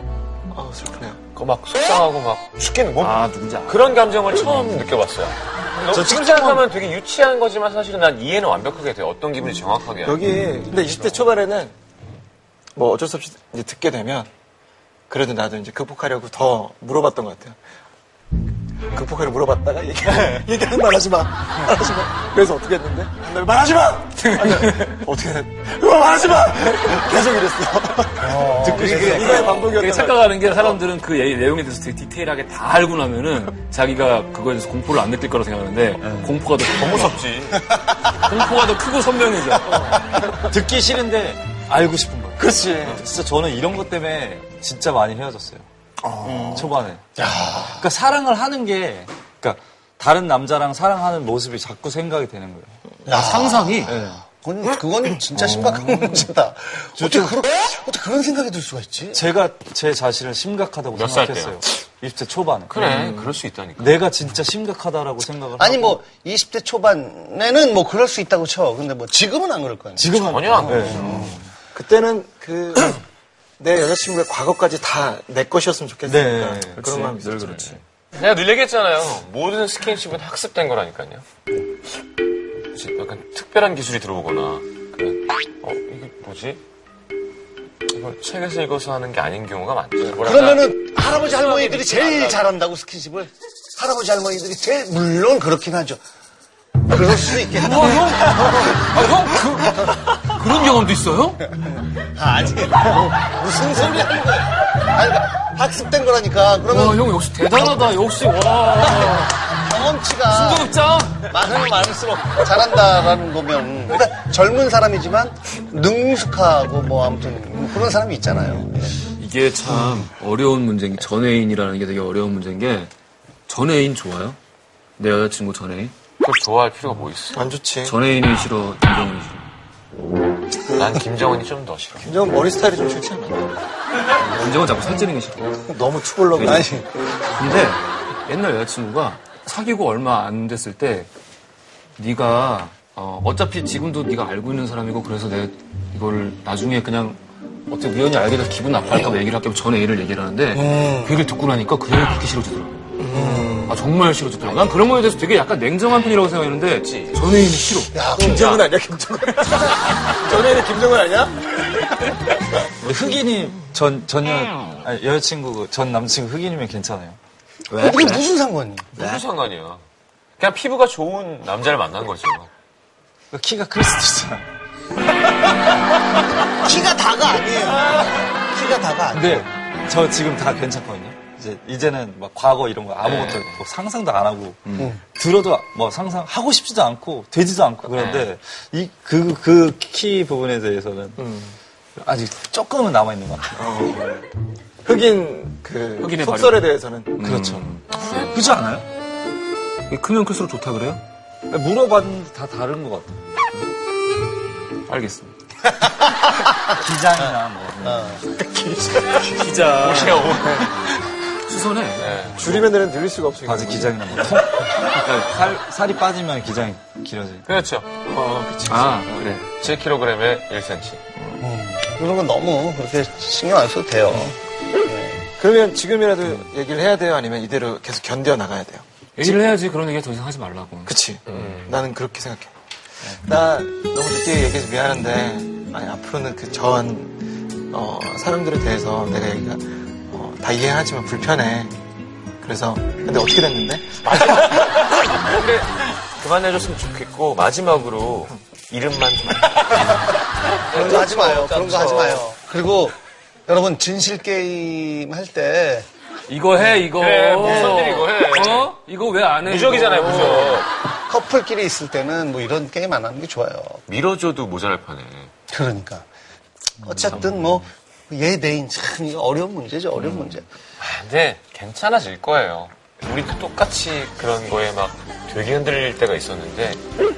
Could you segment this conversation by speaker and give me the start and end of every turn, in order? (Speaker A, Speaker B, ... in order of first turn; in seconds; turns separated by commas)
Speaker A: 0.5-1.2, Speaker B: 1.3-10.2, Speaker C: 3.0-4.7, Speaker A: 5.9-6.7, Speaker A: 10.0-11.7, Speaker A: 12.8-14.3, Speaker A: 15.1-17.6, Speaker A: 18.9-30.8, Speaker C: 24.2-24.9, Speaker D: 28.1-29.7, Speaker E: 28.6-29.2, Speaker C: 28.8-37.2, Speaker E: 36.0-36.3, Speaker B: 36.7-37.7, Speaker C: 37.9-40.0, Speaker E: 40.4-45.6, Speaker A: 42.4-43.1, Speaker C: 46.0-46.7, Speaker D: 46.3-47.9, Speaker E: 46.5-52.8, Speaker D: 53.1-59.2, Speaker C: 53.1-54.2, Speaker E: 57.0-57.4, Speaker E: 59.1-63.0, Speaker B: 60.9-61.6, Speaker B: 62.7-64.0, Speaker E: 63.8-66.0, Speaker D: 65.6-71.4, Speaker E: 70.0-71.4, Speaker B: 70.1-71.3, Speaker A: 71.7-73.0, Speaker A: 73.6-77.6, Speaker E: 76.1-76.8, Speaker C: 76.7-77.8, Speaker B: 78.1-81.2, Speaker B: 82.7-86.6, Speaker B: 87.9-92.5, Speaker D: 90.1-96.0, Speaker D: 96.9-99.1, Speaker C: 97.6-101.4, Speaker D: 101.5-107.0, Speaker C: 106.7-109.4, Speaker D: 109.5-119.0, Speaker C: 110.3-111.2, Speaker C: 119.2-122.9, Speaker C: 123.5-124.4, Speaker C: 125.0-125.9, Speaker B: 126.2-127.4, Speaker A: 127.3-128.0, Speaker C: 127.8-129.4, Speaker B: 130.7-132.1, Speaker A: 132.0-133.5, Speaker C: 134.2-135.7, Speaker A: 135.7-136.8, Speaker C: 136.3-136.7, Speaker D: 136.4-136.9, Speaker C: 137.3-141.1, Speaker C: 142.0-158.6, Speaker A: 150.5-151.1, Speaker A: 153.0-153.8, Speaker B: 156.7-157.2, Speaker D: 157.9-158.6, Speaker A: 158.1-162.1, Speaker E: 162.8-167.2, Speaker D: 167.7-168.9, Speaker E: 167.7-168.2, Speaker B: 168.9-169.8, Speaker E: 169.0-169.2, Speaker B: 170.4-172.5, Speaker E: 173.3-174.5, Speaker D: 176.6-179.4, Speaker E: 179.1-191.2, Speaker B: 183.0-183.6, Speaker B: 187.9-188.3, Speaker A: 191.2-191.6, Speaker E: 192.0-193.7, Speaker A: 193.6-194.2, Speaker A: 194.8-197.3, Speaker C: 196.0-197.8, Speaker E: 197.2-198.9, Speaker C: 199.9-201.0, Speaker E: 201.5-203.2, Speaker C: 204.9-205.3, Speaker E: 206.7-208.1, Speaker D: 207.8-208.2, Speaker A: 208.2-210.9, Speaker C: 209.2-210.6, Speaker B: 209.8-210.8, Speaker C: 211.5-212.1, Speaker B: 212.0-212.6, Speaker A: 212.3-214.3, Speaker E: 213.4-217.5, Speaker B: 217.5-217.9, Speaker A: 218.0-219.4, Speaker C: 218.7-219.5, Speaker B: 219.4-221.0, Speaker D: 221.4-225.2, Speaker A: 225.4-229.4, Speaker C: 229.2-231.6, Speaker A: 230.9-232.5, Speaker A: 233.1-241.8, Speaker A: 242.4-244.5, Speaker B: 244.0-252.3, Speaker D: 250.7-253.0, Speaker D: 253.5-255.9, Speaker C: 256.3-260.6, Speaker B: 256.9-258.7, Speaker D: 257.4-257.8, Speaker B: 259.4-260.7, Speaker D: 261.1-263.8, Speaker B: 263.9-265.3, Speaker D: 265.5-266.1, Speaker D: 266.8-270.5, Speaker B: 270.8-276.8